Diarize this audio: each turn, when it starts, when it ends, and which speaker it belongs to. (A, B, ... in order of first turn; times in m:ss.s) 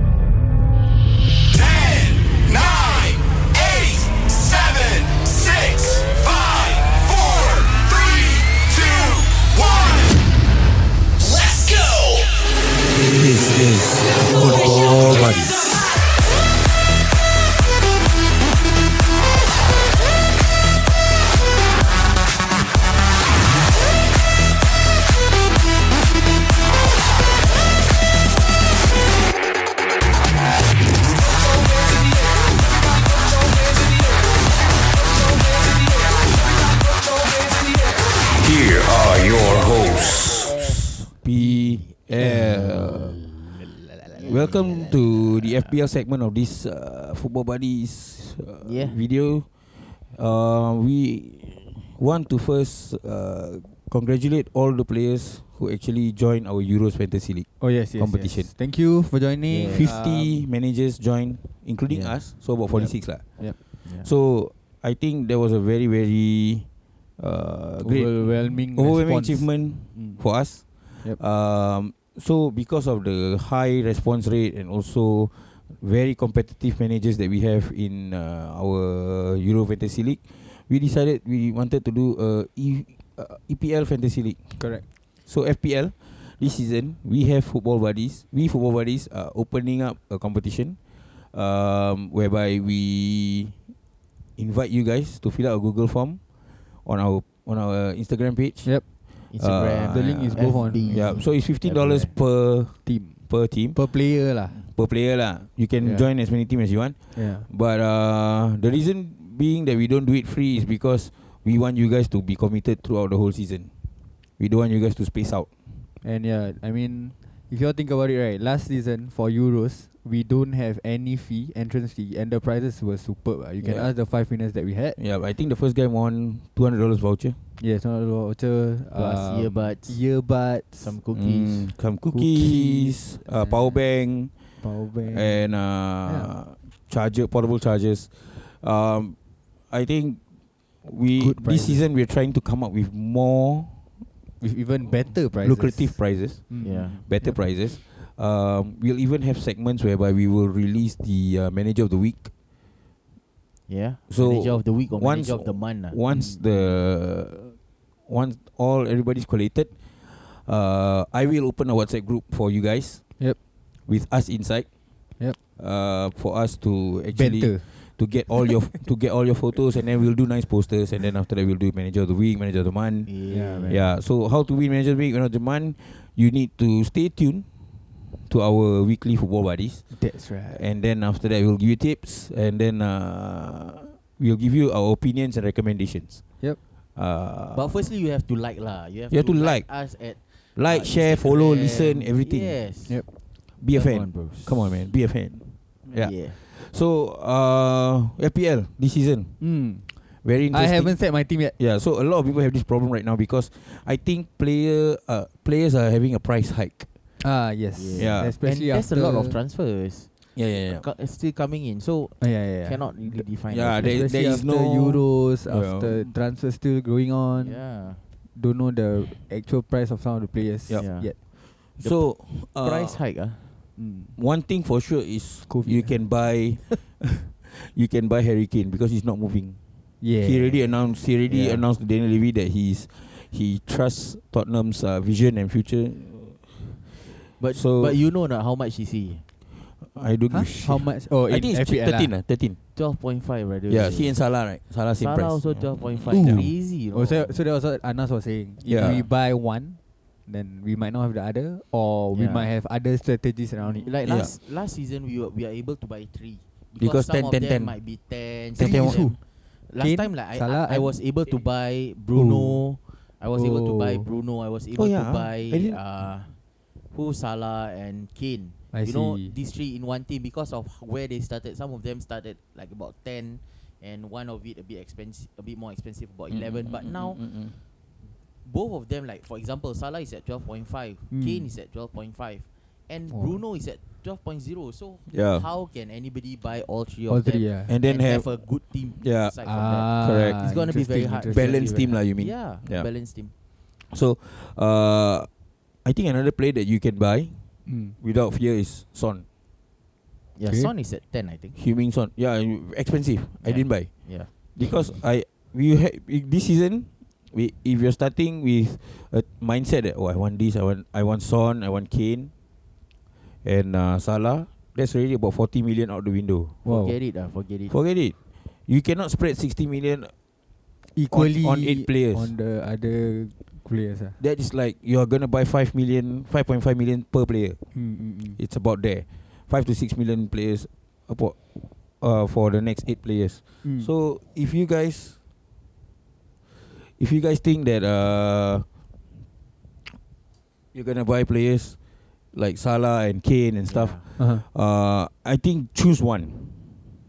0:01.6-0:10.0 A
0:13.0-0:15.6 B
0:38.5-0:43.2 B
0:41.4-0:45.8 C
0:44.2-0:58.5 B
0:48.6-0:49.0 C
0:57.6-1:00.5 D
0:59.5-1:00.0 C
0:59.7-1:24.6 B
1:01.9-1:02.3 C
1:02.7-1:03.6 D
1:03.8-1:04.1 C
1:07.8-1:10.3 D
1:24.6-1:24.8 D
1:25.3-1:33.6 B
1:34.4-1:53.7 B
1:38.6-1:39.1 D
1:39.3-1:42.1 C
1:39.9-1:41.2 D
1:42.7-1:44.7 D
1:45.8-1:46.2 D
1:47.1-1:47.5 D
1:54.4-1:55.5 B
1:56.0-2:05.0 D
2:03.6-2:03.9 B
2:05.0-2:07.4 B
2:07.6-2:11.1 D
2:08.9-2:10.0 C
2:10.8-2:11.7 C
2:11.1-2:19.2 B
2:11.9-2:14.0 D
2:14.6-2:16.4 D
2:19.7-2:20.2 B
2:20.8-2:24.0 B
2:21.2-2:21.9 D
2:24.4-2:27.5 D
2:25.4-2:32.3 B
2:26.6-2:27.0 C
2:33.7-2:36.0 C
2:34.1-2:43.2 B
2:36.1-2:36.8 D
2:43.8-2:44.8 B
2:45.6-2:53.2 B
2:47.1-2:48.0 D
2:53.1-2:53.8 C
2:53.3-2:54.0 D
2:53.7-2:59.9 B
2:59.9-3:00.7 D
3:00.4-3:06.2 B
3:07.0-3:07.9 B
3:07.5-3:13.0 C
3:09.1-3:09.8 B
3:10.6-3:12.6 B
3:13.6-3:19.4 B
3:13.7-3:14.9 C
3:16.0-3:16.4 C
3:19.4-3:21.6 D
3:20.2-3:26.9 B
3:27.2-3:29.4 D
3:27.7-3:30.1 C
3:28.0-3:28.4 B
3:30.4-3:30.8 B
3:30.6-3:34.1 C
3:32.2-3:37.7 D
3:33.5-3:36.0 B
3:37.4-3:38.0 C
3:38.3-3:41.2 D
3:40.8-3:41.1 C
3:41.8-3:43.0 B
3:41.8-3:43.6 C
3:43.8-3:44.2 D
3:44.2-3:49.6 B
3:45.5-3:46.4 D
3:50.0-3:51.6 D
3:50.2-3:58.0 B
3:57.3-3:59.2 C
3:59.8-4:02.6 B
4:00.3-4:02.2 D
4:02.8-4:04.3 C
4:03.7-4:06.5 B
4:04.9-4:07.4 C
4:06.1-4:14.0 D
4:08.6-4:09.1 B
4:12.1-4:12.5 C
4:13.6-4:26.4 C
4:14.0-4:14.3 B
4:16.8-4:17.8 B
4:18.6-4:19.2 D
4:18.6-4:19.0 B
4:19.8-4:21.4 D
4:22.1-4:22.7 D
4:23.3-4:24.1 D
4:24.8-4:25.8 B
4:26.9-4:37.4 C
4:28.7-4:29.4 D
4:36.3-4:37.6 B
4:38.4-4:53.3 C
4:41.1-4:41.5 D
4:43.1-4:43.4 D
4:45.1-4:45.5 B
4:47.1-4:47.8 D
4:47.7-4:49.4 B
4:49.4-4:52.0 D
4:50.0-4:50.4 B
4:51.3-4:52.9 B
4:53.9-4:55.3 B
4:55.8-4:57.4 B
4:57.7-4:58.0 D
4:58.0-4:59.2 B
5:00.4-5:01.6 C
5:00.5-5:00.7 D
5:01.6-5:12.3 B
5:03.4-5:05.0 C
5:13.4-5:16.7 B
5:16.6-5:17.0 D
5:16.7-5:17.8 C
5:17.7-5:18.2 B
5:18.7-5:20.1 B
5:21.0-5:24.2 D
5:21.1-5:22.3 B
5:24.2-5:27.6 B
5:27.7-5:28.4 D
5:28.4-5:31.4 B
5:32.0-5:35.2 B
5:33.6-5:33.9 D
5:36.8-5:38.7 B
5:40.7-5:41.8 B
5:42.3-5:46.8 B
5:43.6-5:44.1 C
5:44.2-5:44.4 D